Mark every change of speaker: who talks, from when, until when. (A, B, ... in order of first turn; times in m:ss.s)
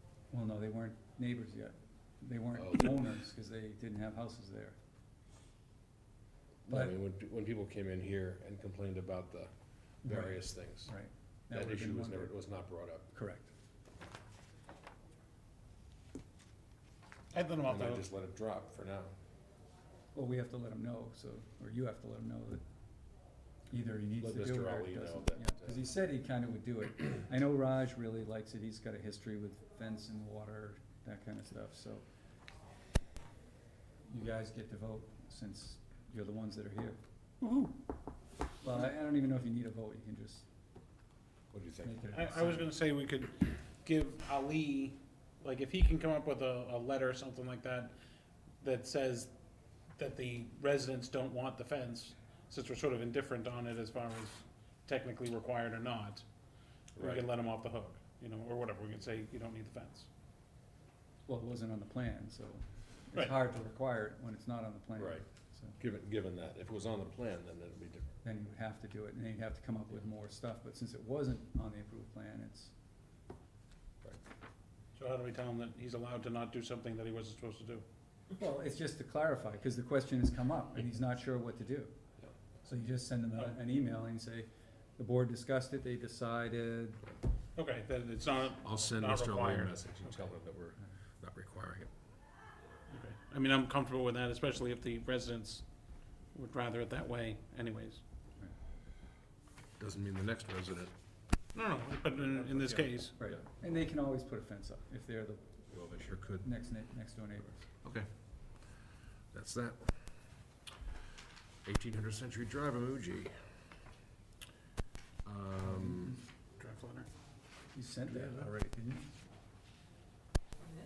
0:00.3-0:04.8 A
0:02.6-0:03.0 B
0:06.6-0:09.5 B
0:06.7-0:07.0 A
0:10.0-0:10.9 B
0:10.0-0:12.3 A
0:11.5-0:13.1 B
0:13.1-0:13.5 A
0:17.3-0:18.0 C
0:17.6-0:19.1 B
0:20.1-0:22.6 A
0:23.7-0:32.0 A
0:24.2-0:25.8 B
0:34.1-0:37.0 A
0:37.4-0:37.7 C
0:38.6-0:40.4 A
0:41.5-0:42.0 B
0:41.8-0:42.7 A
0:42.1-0:47.9 C
0:48.6-0:49.3 C
0:50.0-0:56.2 C
0:57.0-0:57.3 B
0:57.0-1:00.1 C
1:01.3-1:05.8 A
1:03.1-1:03.4 C
1:05.0-1:05.2 B
1:05.8-1:08.1 B
1:08.2-1:12.7 A
1:15.0-1:17.8 C
1:18.3-1:21.9 A
1:22.6-1:27.0 A
1:27.6-1:30.3 C
1:28.6-1:31.9 B
1:32.9-1:35.6 C
1:36.3-1:38.0 C
1:39.8-1:40.9 B
1:41.5-1:43.1 C
1:42.4-1:43.4 B
1:43.2-1:45.6 A
1:45.7-1:46.4 B
1:46.4-1:47.7 A
1:49.3-1:50.0 B
1:51.6-1:53.4 B
1:55.2-1:56.2 B
1:55.6-1:56.2 A
1:56.6-1:57.1 C
1:57.7-1:59.1 A
1:58.1-1:58.5 B